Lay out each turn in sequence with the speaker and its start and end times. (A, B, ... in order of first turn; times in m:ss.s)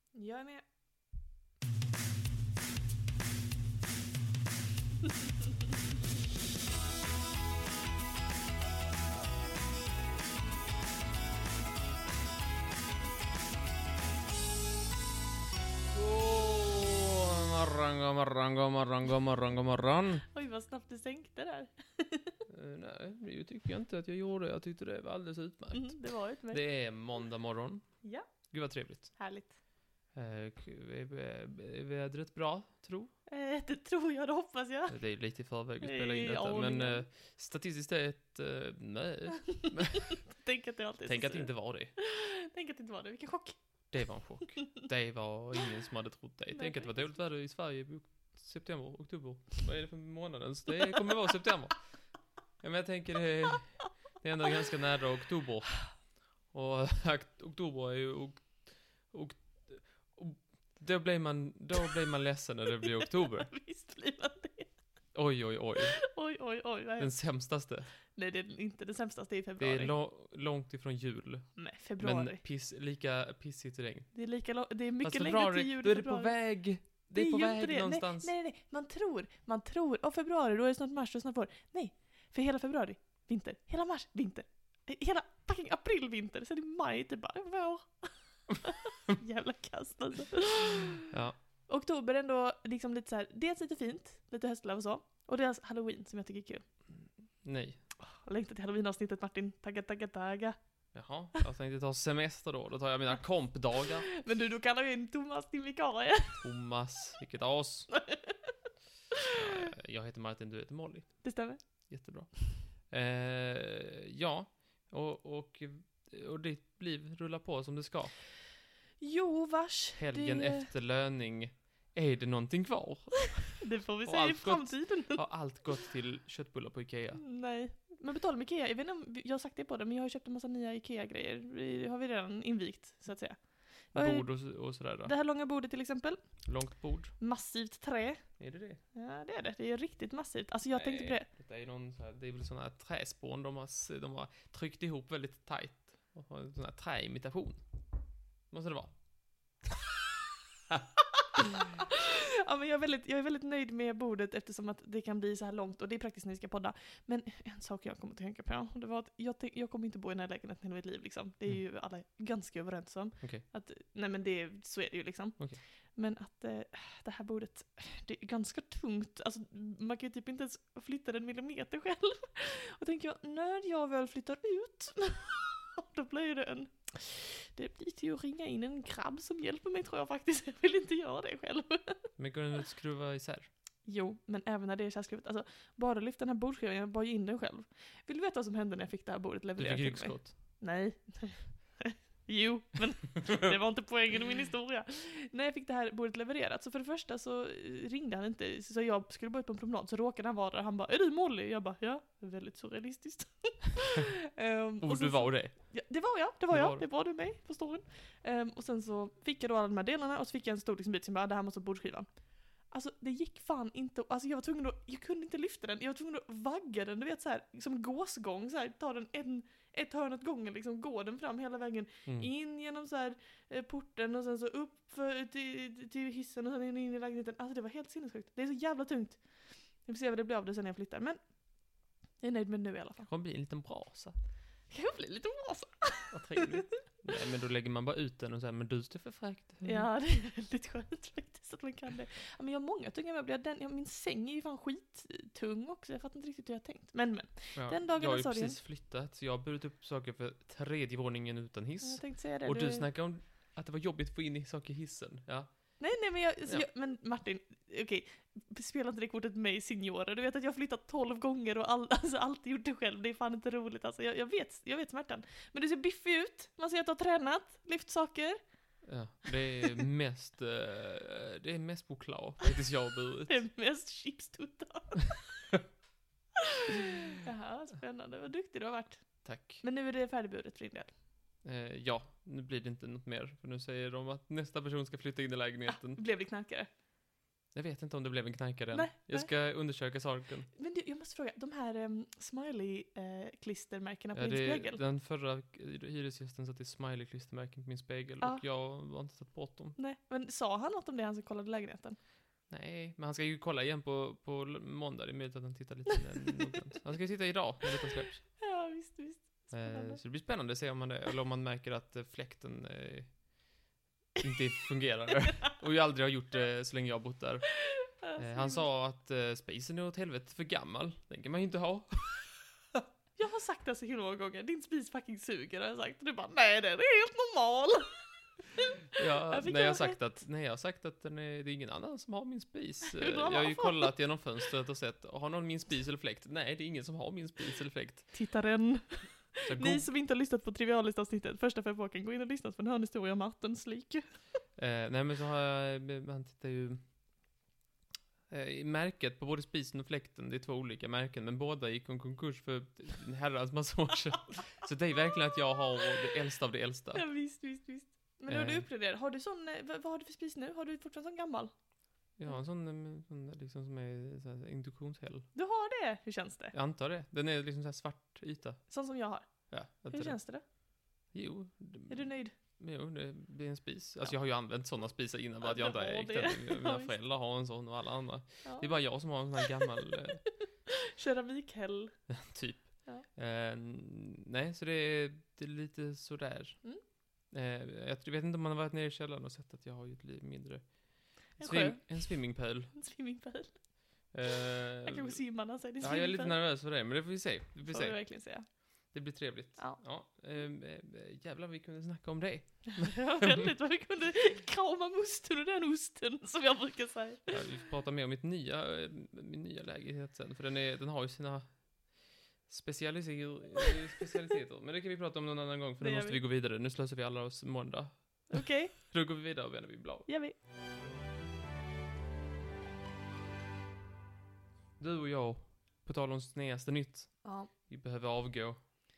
0:00.1-0:00.6 A
0:15.9-0:20.2 B
0:20.3-0:22.4 A
0:22.5-0:26.0 B
0:25.7-0:26.6 A
0:26.5-0:27.9 B
0:28.5-0:29.1 B
0:29.2-0:29.5 A
0:30.1-0:33.1 B
0:33.3-0:35.0 A
0:34.9-0:40.2 B
0:35.8-0:37.0 A
0:39.4-0:43.6 A
0:41.0-0:41.9 B
0:43.9-0:51.8 B
0:46.5-0:47.1 A
0:52.6-1:03.5 B
1:02.8-1:04.7 A
1:05.1-1:06.0 B
1:05.8-1:07.2 A
1:07.0-1:07.9 B
1:08.1-1:09.9 A
1:09.6-1:14.1 B
1:11.6-1:12.4 A
1:14.1-1:16.3 A
1:15.0-1:18.3 B
1:17.1-1:31.1 A
1:31.1-1:31.4 B
1:31.7-1:36.6 A
1:37.0-1:37.8 B
1:38.0-1:40.6 A
1:40.9-1:44.1 B
1:44.1-1:46.4 A
1:46.4-1:47.9 B
1:47.9-1:48.5 A
1:49.3-1:49.6 A
1:49.3-1:51.3 B
1:51.2-1:51.6 A
1:51.9-1:58.1 B
1:59.0-2:00.7 A
2:00.0-2:07.2 B
2:03.6-2:05.2 A
2:07.2-2:14.3 A
2:13.9-2:15.1 B
2:15.0-2:16.2 A
2:16.4-2:17.1 B
2:17.2-2:18.3 A
2:18.4-2:18.8 B
2:18.9-2:21.2 A
2:20.7-2:27.6 B
2:28.5-2:28.9 B
2:31.7-3:02.1 A
3:02.2-3:03.5 B
3:03.8-3:32.1 A
3:09.6-3:10.3 B
3:24.8-3:25.6 B
3:26.5-3:26.8 B
3:32.7-3:51.2 A
3:52.2-3:53.1 A
3:53.1-3:54.1 B
3:54.7-3:56.8 A
3:56.1-3:59.9 B
3:59.6-4:08.6 A
4:07.5-4:15.7 B
4:11.8-4:12.9 A
4:15.8-4:28.4 A
4:28.8-4:33.4 B
4:33.3-4:35.4 A
4:36.5-4:40.9 A
4:39.2-4:39.6 B
4:41.4-4:46.0 B
4:45.7-4:46.7 A
4:47.5-4:50.5 B
4:48.7-4:49.3 A
4:50.6-4:54.8 A
4:54.1-4:59.8 B
4:59.8-5:02.0 A
5:02.5-5:08.2 B
5:08.4-5:10.0 A
5:09.5-5:13.2 B
5:14.2-5:17.5 B
5:17.6-5:18.6 A
5:18.2-5:22.8 B
5:23.2-5:28.0 A
5:28.5-5:30.0 A
5:28.9-5:38.1 B
5:32.8-5:33.9 A
5:38.1-5:44.0 A
5:39.5-5:39.9 B
5:44.6-5:46.8 B
5:48.3-5:57.0 B
5:56.9-6:01.5 A
5:58.3-5:58.6 B
6:02.2-6:05.3 B
6:05.3-6:06.5 A
6:06.5-6:08.6 B
6:08.7-6:09.3 A
6:09.5-6:10.2 B
6:09.9-6:10.4 A
6:11.1-6:20.2 B
6:11.9-6:12.3 A
6:15.4-6:16.9 A
6:18.4-6:18.7 A
6:19.4-6:19.6 A
6:20.7-6:21.9 A
6:22.1-6:26.6 B
6:27.3-6:30.6 B
6:31.4-6:32.7 B
6:31.4-6:32.1 A
6:32.7-6:33.6 A
6:34.1-6:35.2 B
6:34.8-6:36.4 A
6:35.8-6:38.0 B
6:37.7-6:38.4 A
6:38.9-6:43.5 B
6:42.7-6:47.5 A
6:47.3-6:51.6 B
6:52.5-7:00.1 B
6:55.8-6:56.2 A
6:58.3-6:58.8 A
7:00.1-7:00.3 A
7:04.8-7:08.6 B
7:07.2-7:07.5 A